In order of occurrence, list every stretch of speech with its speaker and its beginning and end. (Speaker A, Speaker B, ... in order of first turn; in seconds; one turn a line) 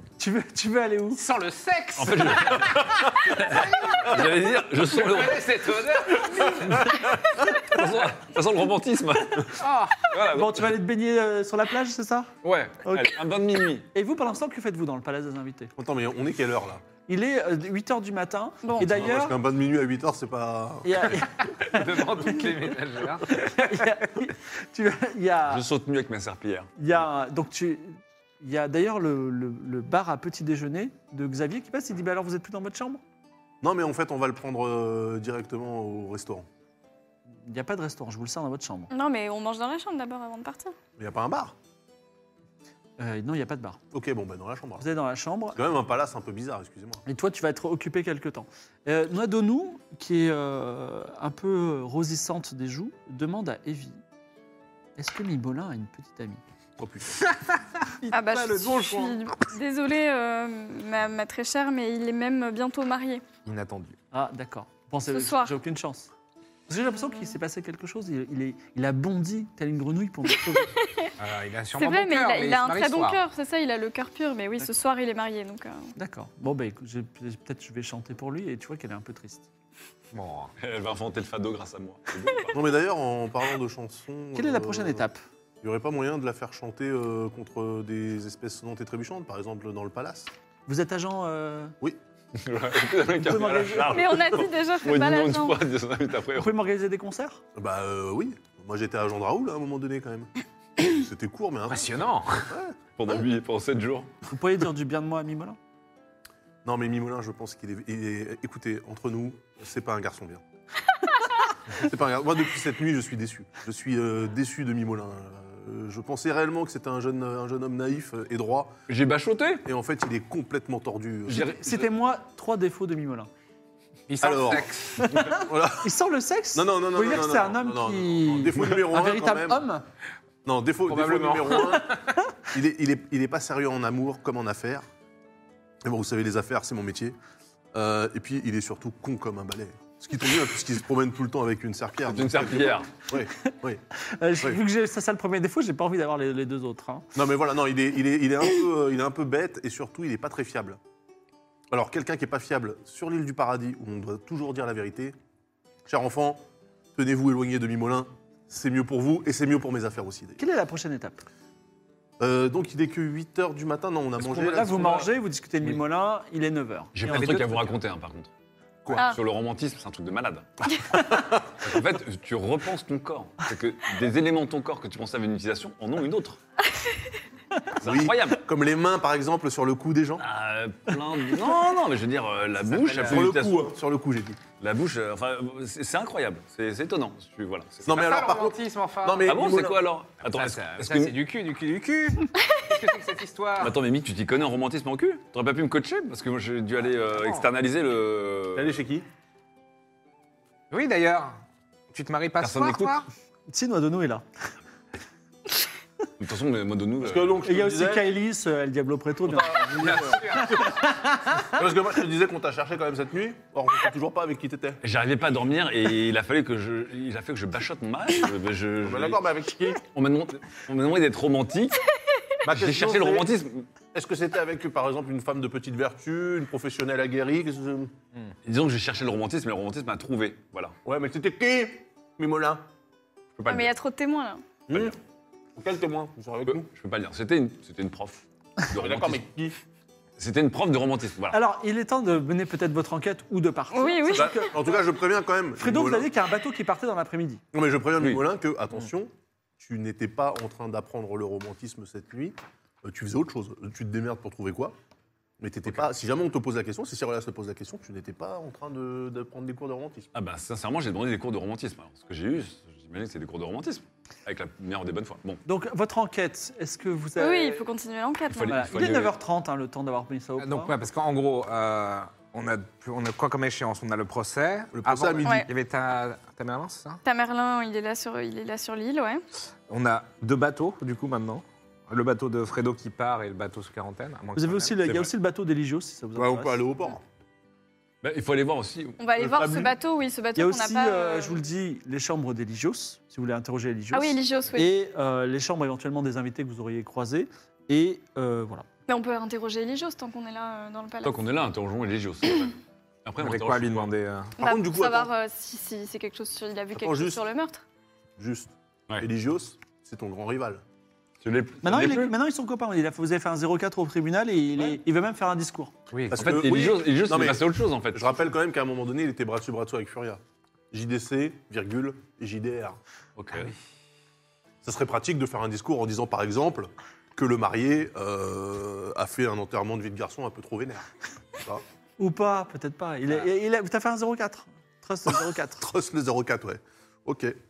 Speaker A: 0.2-1.2
Speaker B: 1.1-6.8
Speaker C: 2.0-5.5
Speaker C: 6.6-10.7
Speaker B: 9.6-10.2
Speaker A: 10.3-12.3
Speaker C: 12.4-13.9
Speaker A: 12.8-13.2
Speaker A: 13.9-15.7
Speaker D: 15.8-16.9
Speaker A: 17.1-19.4
Speaker E: 18.6-18.9
Speaker D: 18.8-21.1
Speaker A: 20.8-22.7
Speaker B: 21.5-23.4
Speaker A: 23.3-25.6
Speaker C: 25.5-26.7
Speaker A: 26.8-33.0
Speaker D: 33.6-36.5
Speaker A: 37.4-38.9
Speaker E: 38.9-40.8
Speaker D: 41.0-41.5
Speaker A: 43.0-43.8
Speaker D: 43.9-44.9
Speaker A: 44.8-45.6
Speaker D: 45.5-47.0
Speaker A: 47.1-54.0
Speaker A: 55.0-56.4
Speaker D: 56.8-57.1
Speaker B: 57.2-59.4
Speaker E: 58.1-63.2
Speaker B: 63.5-64.0
Speaker A: 64.1-66.1
Speaker E: 65.1-65.6
Speaker A: 66.7-70.8
Speaker E: 70.8-71.1
Speaker B: 71.2-73.2
Speaker E: 71.7-75.9
Speaker A: 76.0-79.5
Speaker B: 80.1-80.5
Speaker C: 80.6-82.7
Speaker D: 82.5-85.0
Speaker A: 84.3-85.2
Speaker D: 85.6-90.3
Speaker A: 90.7-91.8
Speaker C: 92.3-96.6
Speaker A: 93.2-94.0
Speaker E: 93.9-95.6
Speaker A: 96.4-97.4
Speaker D: 97.6-102.8
Speaker B: 101.7-102.5
Speaker C: 103.0-104.1
Speaker A: 104.3-105.6
Speaker D: 106.7-110.4
Speaker D: 111.7-118.7
Speaker C: 118.9-119.7
Speaker D: 119.7-121.5
Speaker A: 121.3-123.3
Speaker B: 124.1-125.1
Speaker D: 124.2-124.7
Speaker A: 125.0-129.8
Speaker D: 125.5-125.9
Speaker D: 126.5-129.7
Speaker D: 130.4-131.9
Speaker B: 130.9-132.2
Speaker D: 132.5-134.8
Speaker D: 135.8-137.2
Speaker D: 137.7-143.8
Speaker C: 142.1-142.9
Speaker A: 144.2-147.1
Speaker D: 147.2-150.8
Speaker D: 151.7-155.2
Speaker D: 155.9-156.4
Speaker D: 156.9-160.4
Speaker A: 160.4-161.2
Speaker D: 162.2-165.1
Speaker A: 164.2-167.7
Speaker C: 164.7-165.0
Speaker C: 166.9-168.3
Speaker D: 168.9-169.1
Speaker C: 168.9-170.6
Speaker C: 171.6-176.4
Speaker C: 177.8-178.4
Speaker D: 177.8-180.2
Speaker C: 180.2-183.7
Speaker B: 182.7-183.3
Speaker D: 183.1-184.4
Speaker C: 184.6-188.1
Speaker D: 187.8-189.8
Speaker B: 187.9-189.3
Speaker C: 189.3-191.2
Speaker B: 190.2-193.8
Speaker C: 193.6-198.8
Speaker B: 197.0-197.4
Speaker D: 198.6-199.1
Speaker B: 200.7-201.4
Speaker B: 201.9-203.1
Speaker C: 202.4-203.0
Speaker A: 203.5-204.2
Speaker C: 206.2-207.4
Speaker D: 207.0-208.1
Speaker A: 207.4-211.5
Speaker D: 209.3-210.3
Speaker B: 209.8-210.7
Speaker D: 211.6-214.8
Speaker C: 214.8-219.2
Speaker D: 218.8-219.8
Speaker C: 219.8-221.8
Speaker D: 222.4-223.3
Speaker C: 222.5-223.7
Speaker D: 223.9-227.9
Speaker C: 228.4-230.8
Speaker D: 230.8-232.6
Speaker C: 233.4-233.7
Speaker E: 233.5-234.4
Speaker D: 234.7-235.0
Speaker C: 234.7-235.0
Speaker D: 235.6-236.7
Speaker C: 236.5-239.2
Speaker D: 238.7-239.6
Speaker C: 240.2-241.4
Speaker A: 241.3-244.8
Speaker E: 243.7-244.5
Speaker D: 244.2-246.1
Speaker A: 245.6-247.4
Speaker D: 247.5-254.8
Speaker C: 248.0-248.2
Speaker D: 255.4-260.1
Speaker C: 260.1-265.4
Speaker A: 265.4-267.6
Speaker E: 267.2-268.6
Speaker C: 268.3-269.1
Speaker A: 268.5-270.8
Speaker B: 270.4-277.0
Speaker D: 274.7-275.4
Speaker E: 277.1-279.2
Speaker B: 279.7-284.9
Speaker A: 284.4-286.6
Speaker D: 286.2-287.0
Speaker C: 288.0-289.0
Speaker E: 289.0-291.4
Speaker D: 289.2-289.7
Speaker A: 290.4-298.7
Speaker E: 293.9-294.7
Speaker E: 298.9-301.2
Speaker C: 301.0-303.9
Speaker B: 303.2-304.3
Speaker E: 304.4-307.6
Speaker D: 304.4-305.1
Speaker D: 306.8-307.2
Speaker D: 308.2-310.6
Speaker C: 311.2-312.1
Speaker A: 311.6-315.7
Speaker B: 315.9-316.3
Speaker D: 316.1-322.8
Speaker C: 316.1-318.3
Speaker C: 323.2-323.5
Speaker D: 324.6-330.9
Speaker A: 332.0-335.7
Speaker D: 335.6-337.4